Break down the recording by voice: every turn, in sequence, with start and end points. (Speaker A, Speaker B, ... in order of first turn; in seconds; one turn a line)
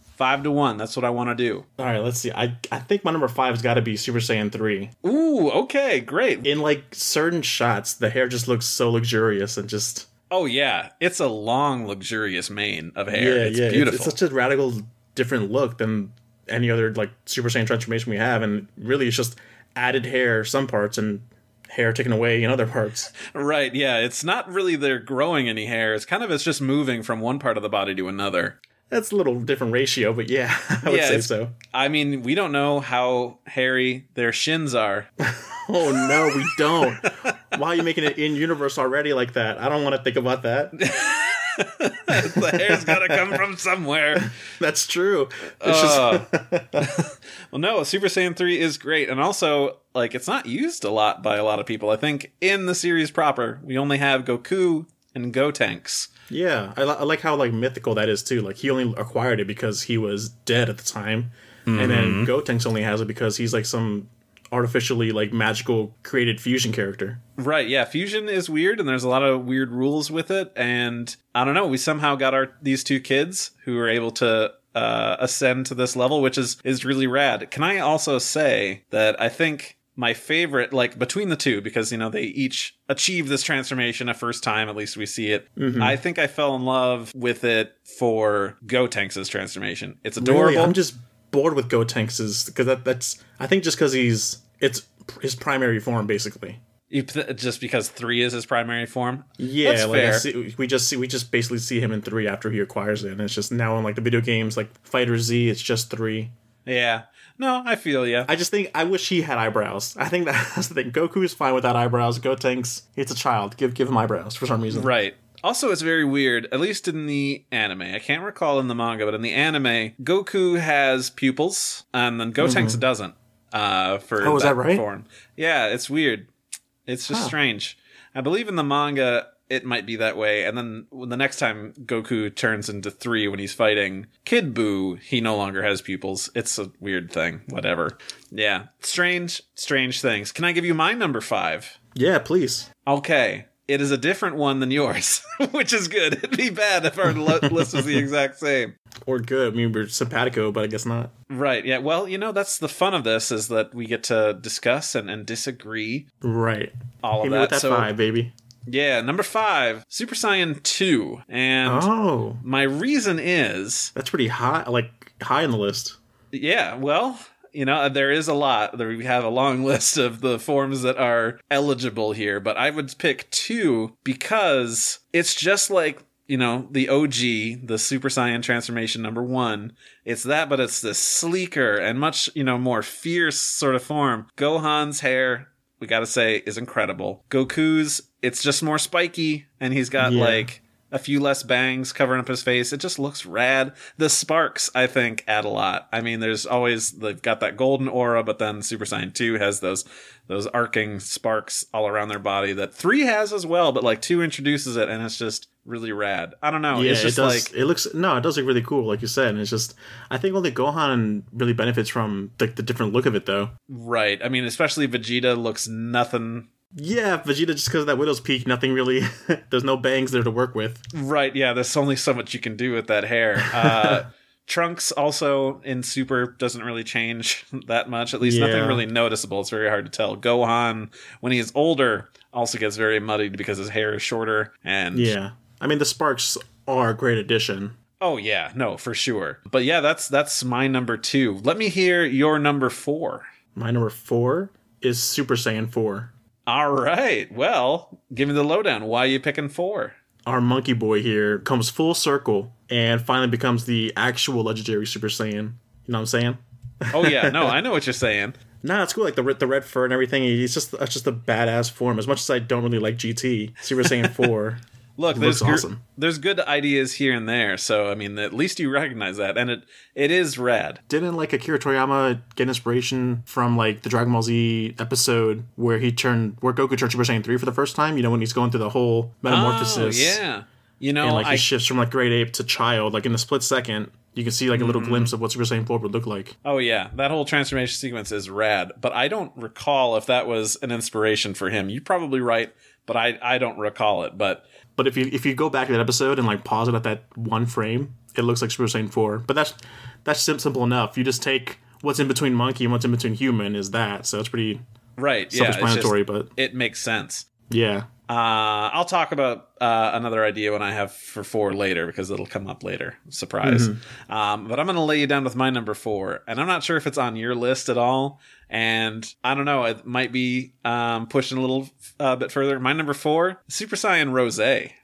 Speaker A: 0.1-1.6
Speaker B: 1.8-4.9
Speaker A: 5.0-6.5
Speaker B: 6.4-10.1
Speaker A: 10.3-14.1
Speaker B: 13.1-23.1
Speaker A: 23.1-28.6
Speaker B: 28.9-31.5
Speaker A: 30.8-35.1
Speaker B: 35.2-40.8
Speaker A: 35.9-37.4
Speaker A: 40.8-44.3
Speaker B: 42.1-43.4
Speaker B: 44.2-47.0
Speaker A: 45.6-46.3
Speaker A: 46.8-56.1
Speaker B: 56.3-67.2
Speaker A: 61.7-62.3
Speaker A: 67.4-90.8
Speaker B: 85.6-86.0
Speaker B: 90.2-96.6
Speaker A: 96.9-100.3
Speaker B: 99.4-106.3
Speaker A: 106.7-108.3
Speaker B: 108.3-114.9
Speaker A: 114.7-126.3
Speaker B: 122.4-122.8
Speaker B: 124.2-124.8
Speaker A: 126.8-141.8
Speaker B: 141.9-142.7
Speaker A: 142.8-148.7
Speaker B: 147.2-148.0
Speaker B: 149.1-151.1
Speaker A: 151.3-156.1
Speaker B: 156.2-158.3
Speaker A: 157.0-157.9
Speaker A: 158.7-161.9
Speaker B: 161.6-162.4
Speaker A: 162.4-163.9
Speaker B: 163.9-166.0
Speaker A: 166.3-207.5
Speaker B: 190.0-190.5
Speaker B: 206.7-213.5
Speaker A: 213.7-216.5
Speaker B: 216.8-220.8
Speaker A: 220.9-235.1
Speaker B: 223.4-224.0
Speaker B: 228.2-228.8
Speaker B: 234.9-237.7
Speaker A: 238.0-243.2
Speaker B: 243.5-246.1
Speaker A: 246.5-250.0
Speaker B: 250.2-257.6
Speaker A: 256.9-258.4
Speaker B: 258.6-265.8
Speaker A: 265.0-270.8
Speaker B: 270.9-280.2
Speaker A: 279.2-281.5
Speaker B: 281.0-286.3
Speaker A: 284.5-285.1
Speaker A: 286.4-294.4
Speaker B: 294.8-304.6
Speaker A: 305.0-307.3
Speaker B: 305.3-306.3
Speaker B: 307.5-307.9
Speaker A: 308.1-324.8
Speaker B: 313.4-313.8